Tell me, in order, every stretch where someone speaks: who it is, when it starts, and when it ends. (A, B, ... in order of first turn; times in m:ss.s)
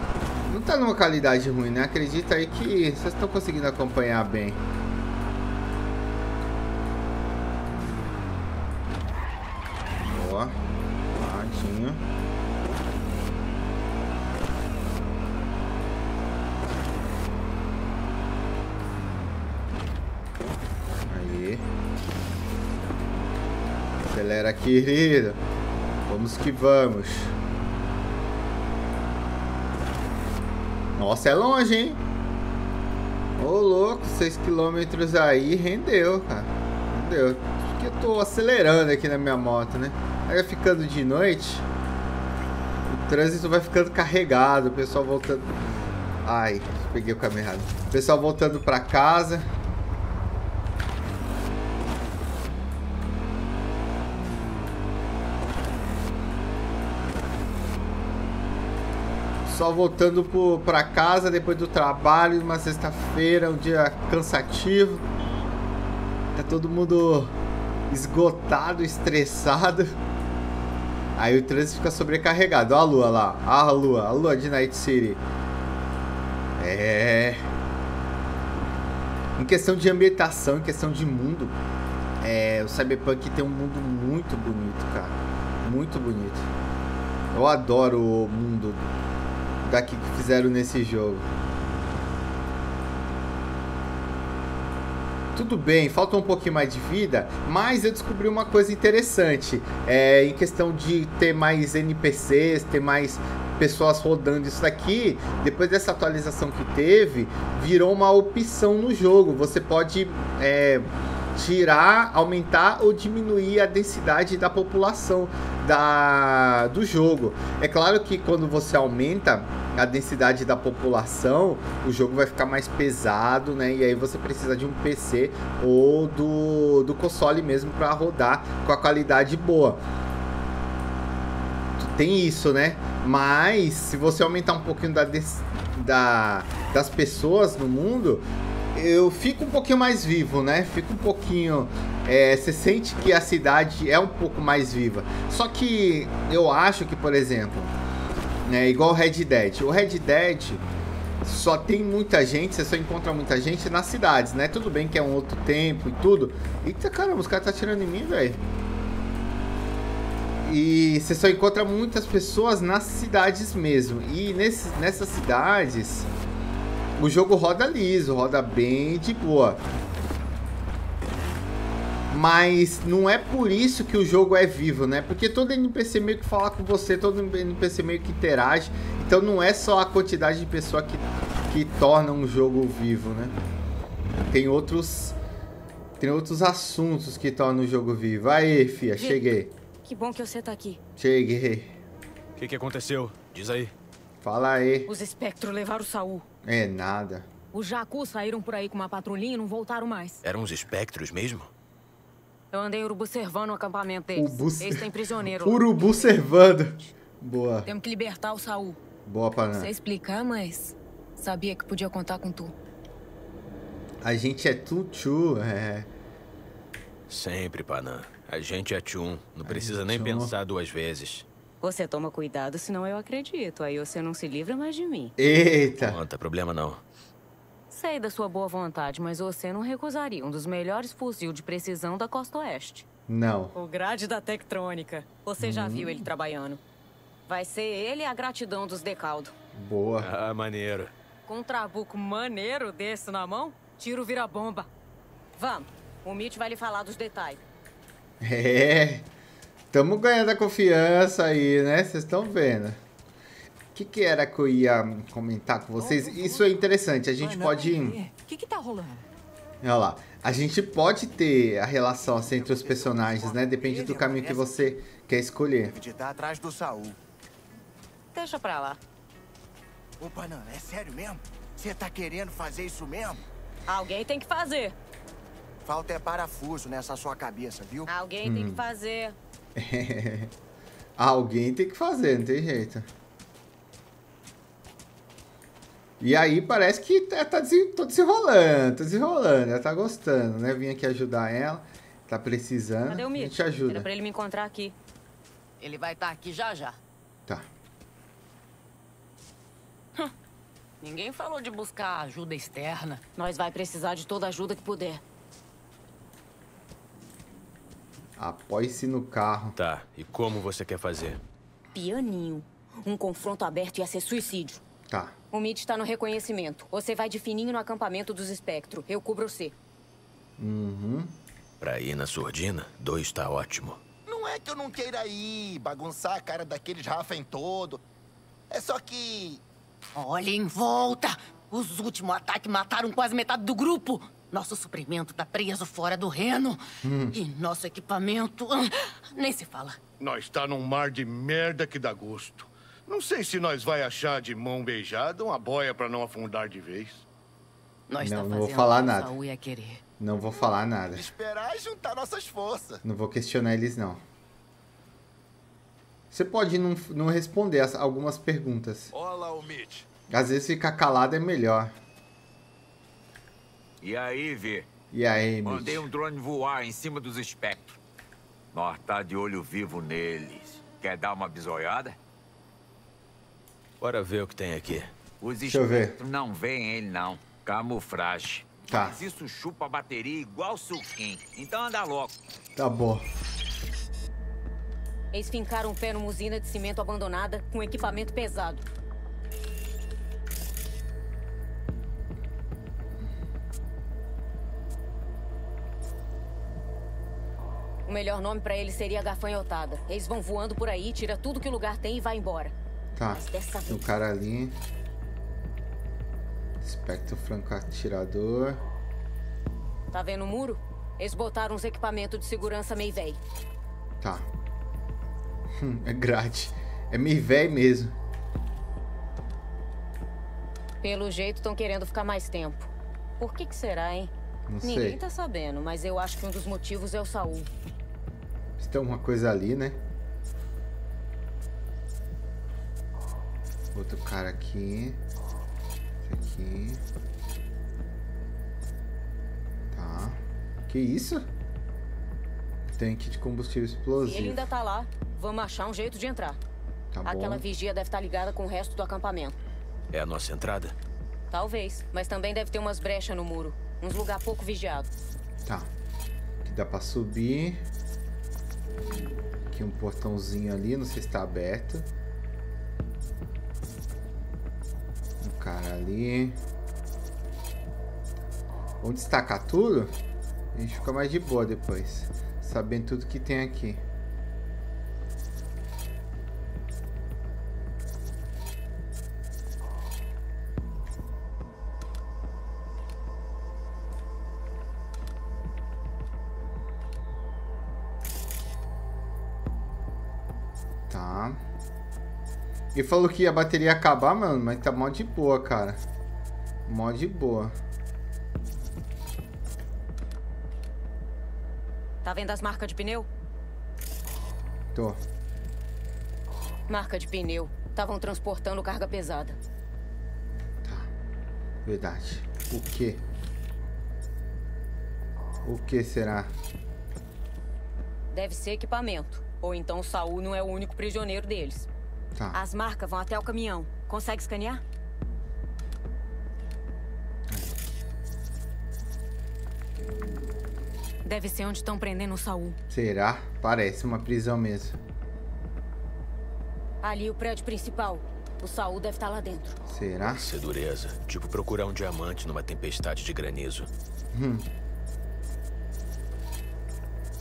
0:00.5-0:04.6 A
0:10.0-0:10.6 A
0:11.1-0:12.0 A
0:21.1-0:21.6 A
0:24.0-0:25.4 A
0:26.0-0:27.3 A
0:31.0-0:32.0 A
0:33.4-0:41.6 A
0:42.9-0:45.6 A
0:46.2-0:49.5 A
0:59.4-1:05.0 A
1:06.3-1:07.3 A
1:07.9-1:09.9 A
1:11.2-1:15.2 A
1:16.6-1:17.4 A
1:19.4-1:21.6 A
1:22.2-1:26.5 A
1:27.3-1:28.8 A
1:29.6-1:31.2 A
1:35.3-2:09.8 A
2:11.8-2:27.7 A
2:28.4-2:30.6 A
2:31.2-2:38.4 A
2:40.4-2:46.1 A
2:47.0-2:49.6 A
2:52.1-3:03.4 A
3:04.3-3:05.2 A
3:06.0-3:09.5 A
3:08.9-3:10.8 B
3:11.0-3:11.8 A
3:12.4-3:13.7 C
3:14.2-3:14.9 A
3:14.9-3:16.2 B
3:16.4-3:17.2 A
3:17.5-3:20.2 B
3:20.2-3:21.5 C
3:22.5-3:26.2 B
3:24.1-3:27.7 A
3:27.6-3:28.8 B
3:29.0-3:29.7 A
3:29.5-3:32.5 B
3:34.0-3:35.9 A
3:37.1-3:41.2 C
3:39.4-3:40.3 A
3:41.6-3:45.1 B
3:45.2-3:46.0 A
3:45.8-3:46.8 C
3:47.7-3:52.8 B
3:53.1-3:53.5 A
3:53.5-3:56.6 B
3:55.4-3:56.1 A
3:57.3-3:59.3 B
3:59.5-4:00.1 A
4:00.0-4:00.9 C
4:01.3-4:04.7 B
4:05.4-4:07.4 B
4:08.2-4:09.1 A
4:09.7-4:12.8 A
4:13.7-4:18.0 A
4:15.8-4:16.4 D
4:17.2-4:19.0 D
4:19.6-4:25.7 A
4:22.2-4:24.4 E
4:25.6-4:27.0 E
4:28.1-4:28.8 B
4:30.0-4:33.2 E
4:33.7-4:34.7 B
4:35.6-4:37.9 E
4:37.9-4:39.2 B
4:38.2-4:38.6 A
4:39.6-4:40.3 A
4:41.0-4:42.9 A
4:46.0-4:53.9 A
4:52.9-4:54.7 B
4:55.6-4:56.8 D
5:00.8-5:03.0 D
5:03.2-5:05.0 B
5:08.2-5:09.5 A
5:09.6-5:11.2 C
5:11.7-5:14.6 B
5:14.9-5:15.1 A
5:15.3-5:19.5 B
5:20.4-5:21.1 A
5:21.6-5:23.8 C
5:24.1-5:27.8 F
5:28.5-5:29.4 F
5:30.0-5:36.6 D
5:36.8-5:37.2 A
5:37.1-5:39.8 D
5:40.0-5:47.0 G
5:47.9-5:49.8 D
5:48.0-5:49.1 A
5:50.0-5:51.1 A
5:50.9-5:52.8 F
5:52.8-5:54.0 A
5:56.1-5:58.9 A
5:58.9-5:59.8 G
6:00.1-6:01.7 A
6:03.8-6:04.7 H
6:04.9-6:05.8 A
6:05.4-6:07.8 H
6:08.5-6:11.9 H
6:13.8-6:14.9 C
6:15.2-6:22.1 H
6:15.4-6:16.0 A
6:18.7-6:19.0 A
6:22.6-6:23.0 A
6:25.1-6:28.6 B
6:37.9-6:42.5 B
6:43.0-6:44.5 A
6:43.1-6:43.9 B
6:46.6-6:48.6 A
6:49.9-6:53.2 B
6:54.0-6:54.3 A
6:55.6-6:58.0 A
7:00.8-7:07.5 B
7:04.5-7:05.0 A
7:08.6-7:09.8 A
7:13.7-7:15.0 A
7:16.0-7:16.8 A
7:19.7-7:21.2 A
7:22.7-7:24.5 A
7:24.0-7:26.4 B
7:26.9-7:27.4 A
7:27.0-7:29.4 B
7:29.9-7:30.7 C
7:31.3-7:34.9 B
7:36.4-7:37.6 A
7:39.5-7:41.9 A
7:45.2-7:46.4 A
7:48.8-7:49.9 A
7:50.5-7:53.8 A
8:10.9-8:11.4 A
8:12.7-8:15.8 A
8:16.7-8:17.5 A
8:22.0-8:23.1 B
8:26.7-8:29.4 B
8:30.6-8:30.9 A
8:31.6-8:33.0 A
8:35.4-8:36.3 A
8:38.1-8:41.7 B
8:42.3-8:44.6 B
8:47.3-8:47.5 A
8:51.0-8:52.6 B
8:52.7-8:54.8 A
8:56.8-8:59.6 B
8:59.7-9:00.2 A
9:00.0-9:03.7 C
9:04.1-9:04.4 A